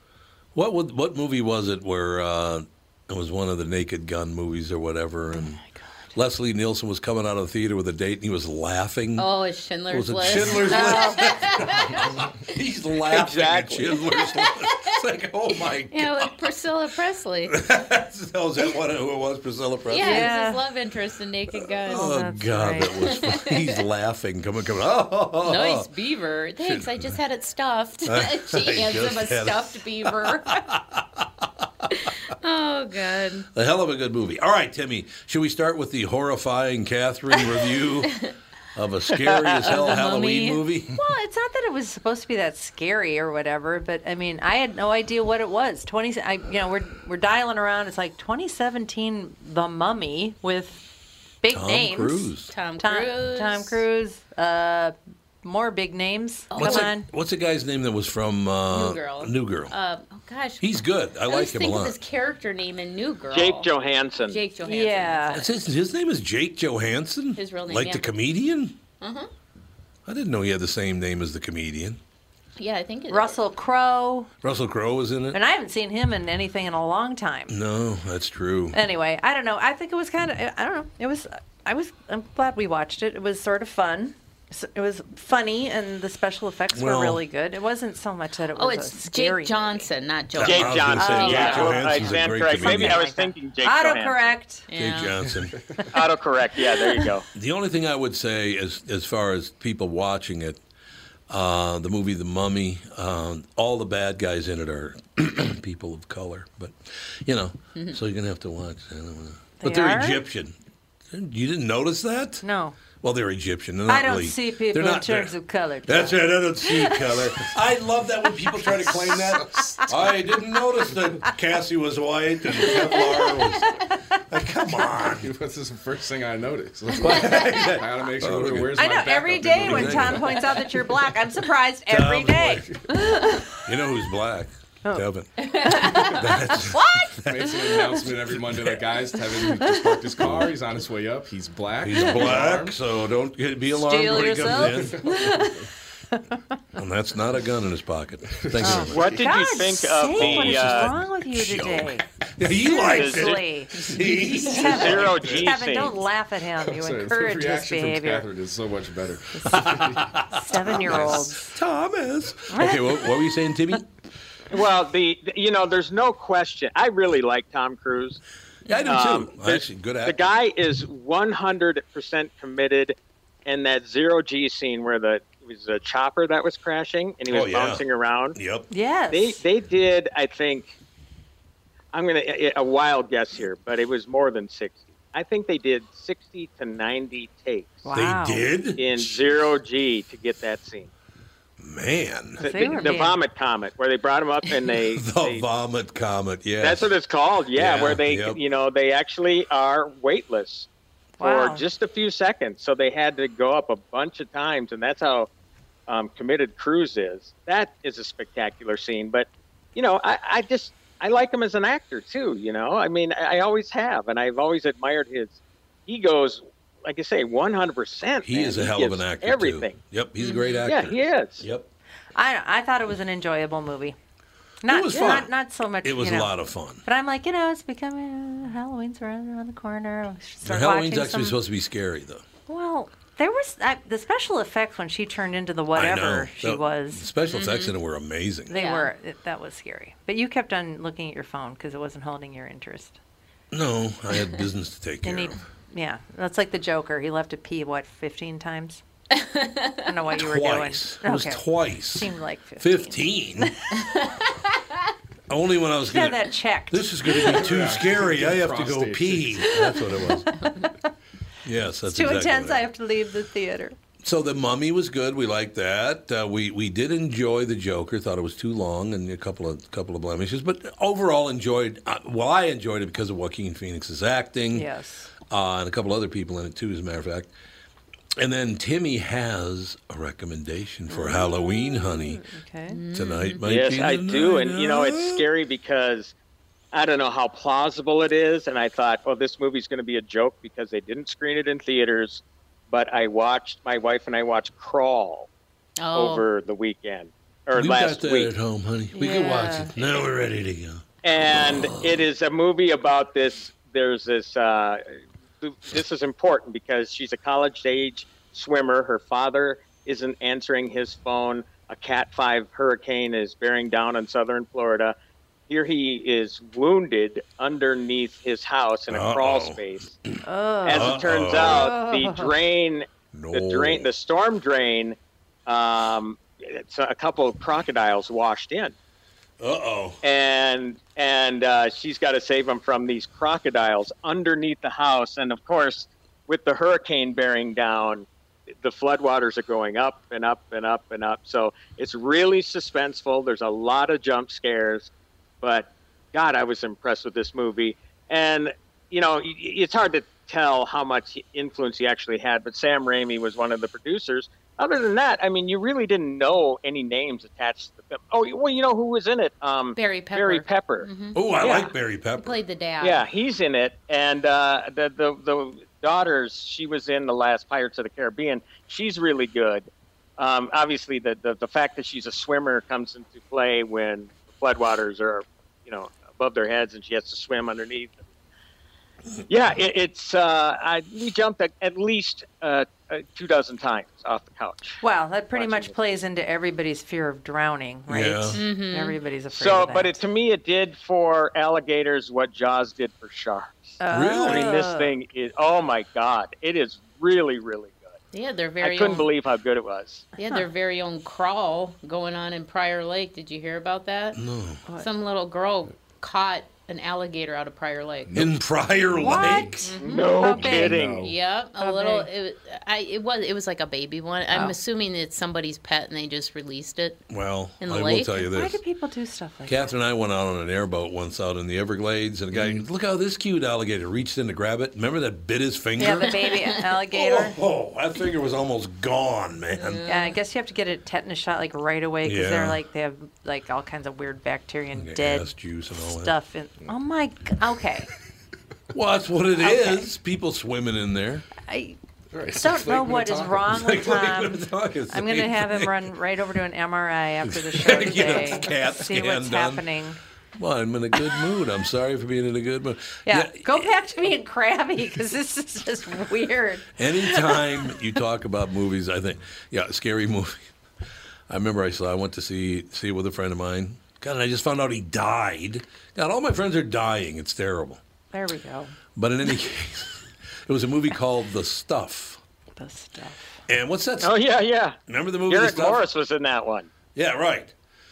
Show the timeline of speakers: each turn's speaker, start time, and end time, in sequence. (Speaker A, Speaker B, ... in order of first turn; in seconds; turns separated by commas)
Speaker A: 0.6-5.6, Speaker B: 5.3-6.0, Speaker A: 6.1-9.3, Speaker C: 9.2-12.2, Speaker A: 9.9-16.4, Speaker B: 10.7-11.3, Speaker D: 13.1-14.0, Speaker C: 14.3-14.9, Speaker C: 15.9-17.6, Speaker A: 17.5-20.3, Speaker C: 19.9-22.1, Speaker B: 20.0-20.6, Speaker A: 21.9-25.9, Speaker B: 21.9-22.9, Speaker C: 23.0-23.8, Speaker C: 25.4-30.6, Speaker A: 26.6-27.2, Speaker A: 28.1-31.9, Speaker C: 32.0-33.5, Speaker A: 33.5-41.0, Speaker D: 39.4-39.7, Speaker C: 39.6-40.6, Speaker B: 40.9-50.9, Speaker B: 51.4-57.1, Speaker A: 51.5-52.5, Speaker C: 52.5-53.8, Speaker C: 56.5-56.9, Speaker A: 56.6-59.7, Speaker C: 58.7-60.7, Speaker A: 60.6-62.0, Speaker C: 61.3-63.7, Speaker D: 63.3-64.4, Speaker C: 64.3-65.4, Speaker B: 64.6-65.4, Speaker A: 65.3-68.8, Speaker C: 67.4-68.1, Speaker C: 69.0-69.3, Speaker A: 70.1-72.0, Speaker C: 72.6-73.4, Speaker B: 73.1-74.3, Speaker A: 74.4-75.4, Speaker B: 75.3-77.5, Speaker A: 77.5-78.8, Speaker B: 78.7-89.9, Speaker A: 86.7-87.2, Speaker C: 88.6-91.9, Speaker A: 90.3-93.0, Speaker D: 90.4-94.3, Speaker B: 91.0-94.7, Speaker C: 94.7-95.2, Speaker A: 94.7-95.6, Speaker D: 95.9-97.3, Speaker A: 97.3-100.6, Speaker A: 101.3-110.5, Speaker B: 109.6-110.2, Speaker A: 111.1-112.5, Speaker B: 112.4-112.8, Speaker A: 113.0-115.3, Speaker B: 113.9-117.2, Speaker A: 115.9-125.3, Speaker B: 118.6-119.2, Speaker E: 119.3-119.9, Speaker B: 122.7-123.0, Speaker E: 125.2-130.4, Speaker A: 127.0-128.8, Speaker B: 128.8-133.5, Speaker A: 129.4-130.4, Speaker A: 131.9-132.8, Speaker A: 133.6-137.5, Speaker B: 134.8-138.0, Speaker C: 135.4-136.1, Speaker E: 137.2-142.8, Speaker A: 138.1-138.8, Speaker A: 140.2-140.5, Speaker A: 141.8-145.1, Speaker B: 143.7-146.4, Speaker E: 144.7-145.7, Speaker A: 146.7-149.1, Speaker E: 148.4-149.1, Speaker B: 148.6-152.1, Speaker D: 148.9-150.9, Speaker A: 150.1-155.4, Speaker B: 152.6-158.3, Speaker D: 152.8-153.4, Speaker D: 154.5-156.0, Speaker E: 156.6-160.1, Speaker B: 159.3-159.7, Speaker A: 159.5-163.9, Speaker B: 160.3-161.6, Speaker E: 160.8-161.2, Speaker B: 162.5-163.2, Speaker D: 164.5-168.2, Speaker A: 168.7-170.2, Speaker D: 168.9-178.4, Speaker A: 177.3-177.8, Speaker A: 178.3-178.7, Speaker B: 178.7-179.4, Speaker D: 179.1-180.7, Speaker D: 181.9-187.9, Speaker B: 187.8-188.5, Speaker A: 187.9-189.2, Speaker D: 188.8-190.9, Speaker A: 191.6-192.5, Speaker D: 192.4-195.4, Speaker B: 192.4-193.2, Speaker A: 194.9-196.9, Speaker D: 196.6-200.7, Speaker A: 197.6-198.4, Speaker B: 201.2-201.6, Speaker D: 201.2-205.3, Speaker D: 205.9-219.8, Speaker A: 218.2-221.7, Speaker C: 220.2-220.6, Speaker D: 220.6-221.4, Speaker B: 222.1-223.9, Speaker B: 224.6-231.4, Speaker A: 224.7-225.3, Speaker A: 225.8-226.8, Speaker A: 230.4-232.2, Speaker B: 232.5-237.7, Speaker A: 235.7-238.5, Speaker B: 238.5-243.0, Speaker C: 238.5-238.9, Speaker A: 243.5-245.4, Speaker B: 245.0-248.8, Speaker C: 249.1-249.9, Speaker B: 249.8-253.0, Speaker A: 250.1-253.6, Speaker C: 253.8-254.3, Speaker A: 255.3-260.3, Speaker B: 255.9-257.3, Speaker E: 257.2-259.5, Speaker B: 260.3-260.9, Speaker A: 261.4-262.7, Speaker B: 261.9-263.7, Speaker A: 264.0-274.7, Speaker B: 274.5-275.1, Speaker A: 275.3-277.3, Speaker A: 278.2-282.2, Speaker B: 280.9-282.8, Speaker C: 282.7-283.4, Speaker A: 282.9-285.2, Speaker D: 283.4-286.1, Speaker D: 286.7-295.3, Speaker C: 295.8-296.2, Speaker D: 295.9-298.3, Speaker A: 297.5-302.1, Speaker B: 298.9-299.7, Speaker D: 301.0-314.9, Speaker D: 315.5-319.9, Speaker A: 318.9-319.6, Speaker B: 320.2-322.3, Speaker D: 320.6-328.7, Speaker A: 320.7-321.7, Speaker A: 323.1-323.9, Speaker A: 329.4-330.0, Speaker D: 330.0-338.1, Speaker D: 338.6-344.9, Speaker D: 345.4-360.9, Speaker C: 359.8-361.2, Speaker A: 361.1-362.4, Speaker D: 361.4-361.7, Speaker C: 362.2-363.0, Speaker D: 362.8-369.7, Speaker D: 370.2-378.1, Speaker D: 379.3-384.8, Speaker B: 384.8-390.0, Speaker D: 385.3-385.8, Speaker A: 387.9-388.4, Speaker C: 388.4-389.0, Speaker D: 389.3-398.0, Speaker B: 393.8-394.9, Speaker A: 393.9-394.5, Speaker C: 398.1-399.1, Speaker D: 398.6-400.1, Speaker C: 400.2-404.2, Speaker A: 404.1-404.6, Speaker C: 404.8-408.1, Speaker E: 408.1-408.4, Speaker A: 408.1-409.6, Speaker E: 409.0-409.5, Speaker B: 409.0-410.8, Speaker C: 409.6-410.2, Speaker D: 409.7-411.0, Speaker E: 410.1-411.1, Speaker C: 411.0-417.0, Speaker B: 411.6-412.1, Speaker A: 417.1-418.6, Speaker C: 417.6-418.2, Speaker B: 418.2-419.7, Speaker A: 419.4-426.2, Speaker E: 422.3-422.6, Speaker B: 425.8-427.4, Speaker A: 426.9-429.8, Speaker C: 429.6-430.2, Speaker B: 429.9-437.9, Speaker A: 432.1-432.6, Speaker A: 434.7-436.2, Speaker A: 438.7-441.3, Speaker B: 439.4-439.9, Speaker B: 441.5-441.8, Speaker E: 442.1-443.5, Speaker B: 442.4-450.0, Speaker A: 443.5-445.7, Speaker A: 447.2-449.7, Speaker A: 450.4-453.7, Speaker B: 453.1-457.8, Speaker A: 456.8-460.4, Speaker A: 461.3-467.8, Speaker B: 468.1-468.8, Speaker A: 468.9-472.2, Speaker B: 472.6-473.4, Speaker A: 473.5-474.2, Speaker D: 474.0-476.7, Speaker A: 474.9-475.9, Speaker A: 476.9-477.5